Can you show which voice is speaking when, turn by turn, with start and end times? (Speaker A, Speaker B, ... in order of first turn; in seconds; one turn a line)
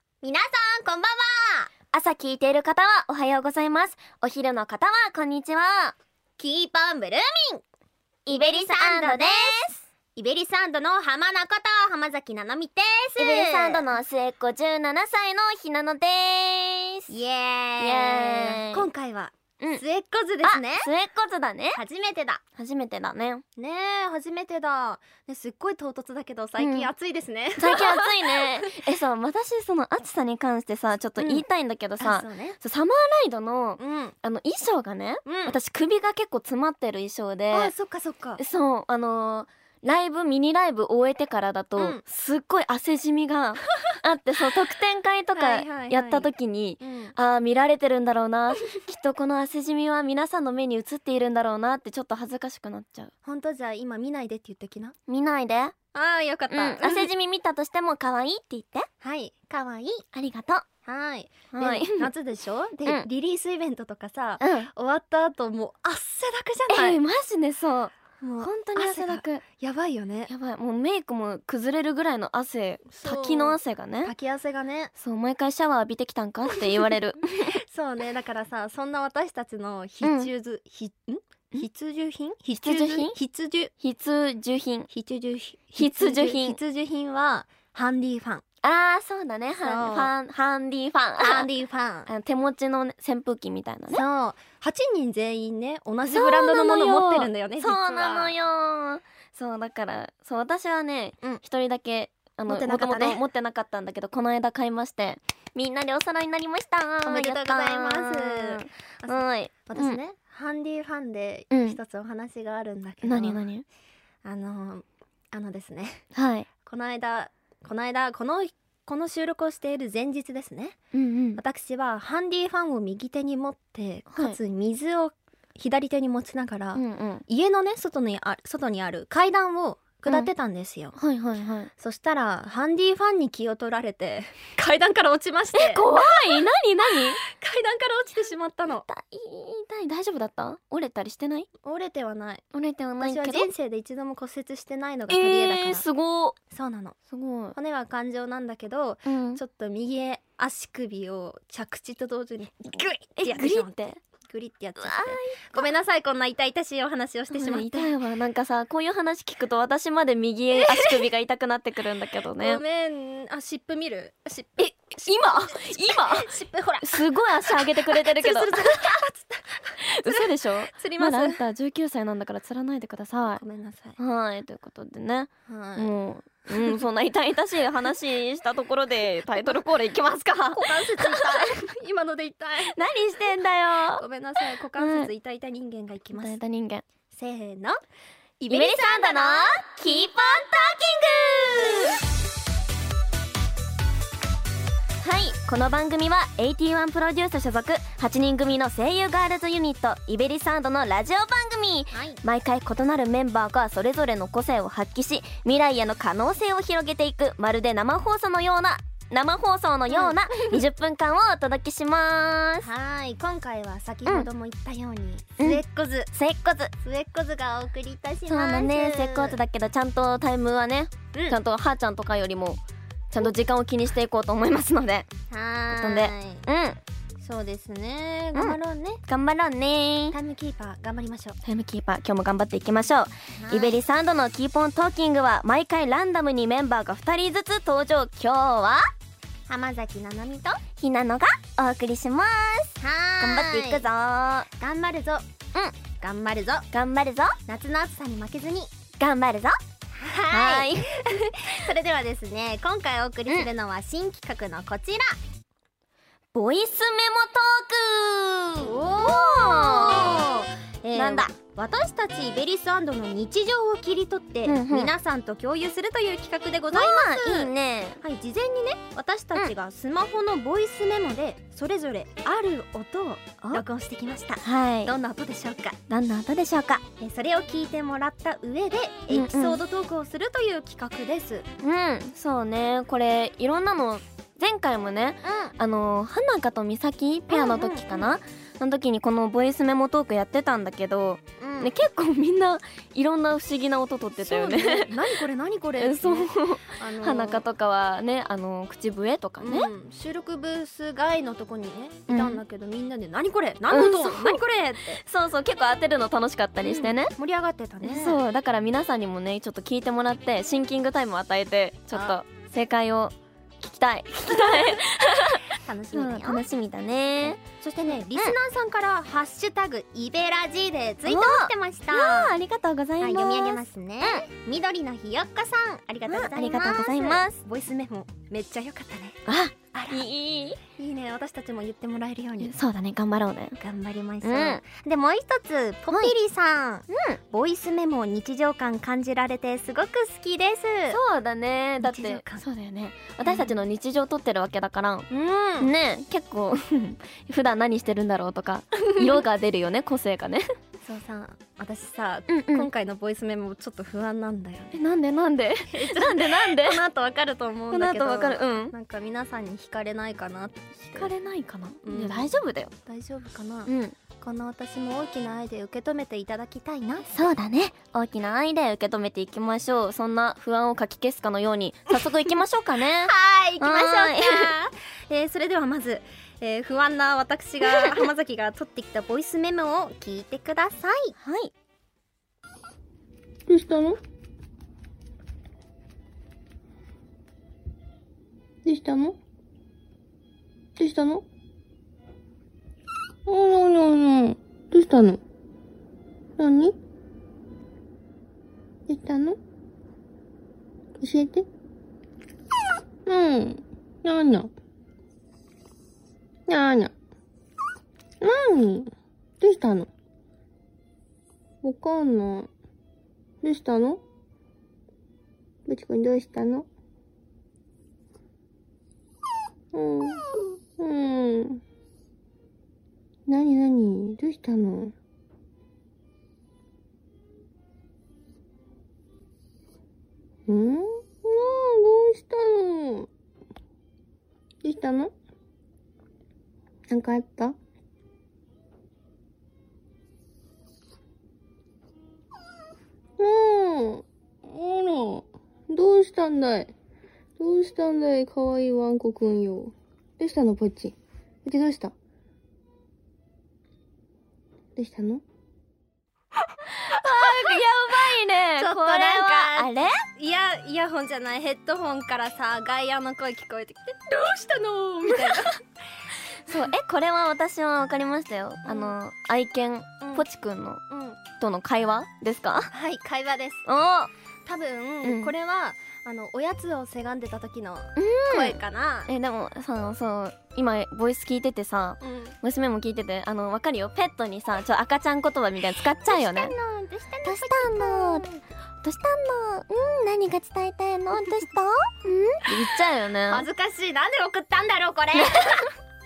Speaker A: 0.2-1.7
Speaker B: 1.9-6.0
Speaker A: 6.4-7.6
Speaker B: 8.3-9.8
Speaker A: 8.3-9.6
Speaker A: 10.2-13.9
Speaker B: 13.2-17.1
Speaker A: 17.1-20.9
Speaker B: 17.8-18.9
Speaker B: 20.4-21.8
Speaker A: 21.7-22.4
Speaker B: 22.6-23.4
Speaker A: 23.6-28.6
Speaker B: 26.6-26.9
Speaker B: 27.6-37.7
Speaker A: 31.2-31.4
Speaker A: 32.0-32.6
Speaker A: 33.8-34.1
Speaker A: 35.3-35.6
Speaker A: 37.5-38.4
Speaker B: 38.4-53.1
Speaker A: 45.3-47.1
Speaker A: 53.2-55.0
Speaker B: 55.1-55.8
Speaker A: 55.9-57.1
Speaker B: 56.5-58.9
Speaker A: 59.0-60.0
Speaker B: 60.1-60.6
Speaker A: 60.9-67.0
Speaker B: 61.5-62.1
Speaker B: 64.4-64.7
Speaker B: 66.7-69.4
Speaker A: 68.2-70.3
Speaker B: 70.3-74.1
Speaker A: 72.9-74.9
Speaker B: 75.0-77.6
Speaker A: 77.7-83.7
Speaker B: 80.0-80.3
Speaker B: 82.6-83.2
Speaker B: 83.8-84.9
Speaker A: 84.9-88.4
Speaker B: 85.8-86.6
Speaker B: 88.6-91.5
Speaker A: 89.6-90.1
Speaker A: 91.2-92.1
Speaker B: 92.1-94.0
Speaker A: 93.9-98.3
Speaker B: 96.1-110.0
Speaker A: 102.5-103.2
Speaker A: 107.0-113.5
Speaker B: 111.5-111.8
Speaker B: 113.0-113.7
Speaker A: 114.2-116.0
Speaker B: 116.2-116.5
Speaker A: 116.7-120.8
Speaker B: 120.9-121.4
Speaker A: 121.4-131.0
Speaker B: 124.1-124.4
Speaker B: 126.7-127.2
Speaker B: 131.0-131.7
Speaker A: 131.8-136.4
Speaker B: 135.5-137.2
Speaker A: 137.2-138.8
Speaker B: 138.7-141.5
Speaker A: 141.6-142.4
Speaker B: 142.5-143.5
Speaker A: 143.0-145.8
Speaker B: 145.1-146.4
Speaker A: 146.5-147.0
Speaker B: 147.1-147.6
Speaker A: 147.6-157.9
Speaker B: 149.1-149.4
Speaker B: 153.2-154.0
Speaker B: 154.8-155.7
Speaker B: 157.3-162.6
Speaker A: 160.7-161.1
Speaker A: 162.4-164.7
Speaker B: 164.6-169.0
Speaker A: 165.5-171.4
Speaker B: 169.8-173.4
Speaker A: 173.4-174.0
Speaker B: 174.0-181.5
Speaker A: 175.5-175.9
Speaker A: 180.5-182.8
Speaker B: 182.6-184.0
Speaker A: 183.9-186.3
Speaker B: 184.7-185.1
Speaker B: 186.1-186.8
Speaker A: 187.1-187.8
Speaker A: 188.4-189.6
Speaker B: 188.5-192.0
Speaker B: 195.0-212.7
Speaker A: 201.9-202.2
Speaker A: 209.9-210.2
Speaker A: 212.6-216.1
Speaker B: 216.1-216.7
Speaker A: 216.8-219.4
Speaker B: 218.3-222.6
Speaker B: 223.1-225.1
Speaker A: 225.3-226.4
Speaker B: 225.7-226.8
Speaker A: 227.2-229.0
Speaker B: 228.3-230.2
Speaker A: 230.1-231.4
Speaker B: 231.4-238.9
Speaker A: 233.4-233.8
Speaker A: 239.5-240.6
Speaker B: 240.8-244.5
Speaker A: 242.8-243.8
Speaker A: 244.6-245.3
Speaker A: 246.0-246.7
Speaker B: 246.7-247.3
Speaker A: 247.5-248.7
Speaker B: 249.0-249.6
Speaker A: 249.9-255.2
Speaker B: 250.3-251.5
Speaker B: 256.3-261.3
Speaker A: 258.6-275.8
Speaker B: 264.4-264.9
Speaker B: 266.7-268.0
Speaker B: 274.4-274.9
Speaker B: 275.9-276.8
Speaker A: 277.0-281.5
Speaker B: 279.1-279.6
Speaker B: 281.6-295.0
Speaker A: 285.2-285.5
Speaker A: 287.3-288.1
Speaker A: 291.4-291.7
Speaker A: 294.2-297.4
Speaker B: 295.8-299.7
Speaker A: 299.4-305.0
Speaker B: 302.1-302.4
Speaker B: 303.7-304.4
Speaker B: 305.0-307.1
Speaker A: 306.6-308.2
Speaker B: 307.8-317.4
Speaker A: 311.9-312.2
Speaker A: 314.4-314.7
Speaker A: 315.5-316.4
Speaker A: 317.6-322.3
Speaker B: 321.1-324.2
Speaker A: 323.0-329.2
Speaker B: 326.1-327.4
Speaker B: 329.3-330.6
Speaker A: 329.7-330.1
Speaker A: 330.8-332.5
Speaker B: 332.4-333.6
Speaker A: 333.6-341.0
Speaker B: 334.2-334.6
Speaker B: 336.9-337.2
Speaker B: 340.9-345.1
Speaker A: 341.8-342.4
Speaker A: 343.2-343.5
Speaker A: 345.1-345.7
Speaker B: 345.6-350.5
Speaker A: 350.8-354.8
Speaker B: 352.3-352.7
Speaker B: 354.7-356.8
Speaker A: 355.7-361.1
Speaker B: 357.7-358.7
Speaker B: 360.9-362.7
Speaker A: 361.8-367.1
Speaker B: 363.7-364.0
Speaker B: 367.1-374.5
Speaker A: 373.0-381.1
Speaker B: 377.7-378.0
Speaker B: 381.2-381.5
Speaker C: 383.5-384.0
Speaker C: 388.6-389.2
Speaker C: 390.8-391.2
Speaker C: 393.3-395.2
Speaker C: 396.4-396.8
Speaker C: 398.9-399.4
Speaker C: 401.0-401.5
Speaker C: 403.1-404.5
Speaker C: 406.5-406.9
Speaker C: 408.2-409.9
Speaker C: 411.6-412.5
Speaker C: 413.4-414.0
Speaker C: 415.7-416.7
Speaker C: 419.7-420.2
Speaker C: 420.8-421.6
Speaker C: 423.3-424.9
Speaker C: 430.5-433.1
Speaker C: 434.6-435.1
Speaker C: 436.9-437.6
Speaker C: 443.2-446.7
Speaker C: 447.4-451.9
Speaker C: 454.8-455.2
Speaker B: 456.7-460.0
Speaker A: 458.6-465.6
Speaker B: 465.1-465.4
Speaker B: 466.5-472.7
Speaker A: 468.7-469.0
Speaker A: 470.9-471.2
Speaker A: 472.7-473.6
Speaker B: 473.7-474.1
Speaker A: 474.4-479.1
Speaker B: 475.0-475.3
Speaker B: 478.0-486.5
Speaker A: 482.0-482.4
Speaker A: 486.1-488.4
Speaker B: 487.2-488.3
Speaker B: 488.8-493.5
Speaker A: 493.3-495.6
Speaker B: 495.1-495.7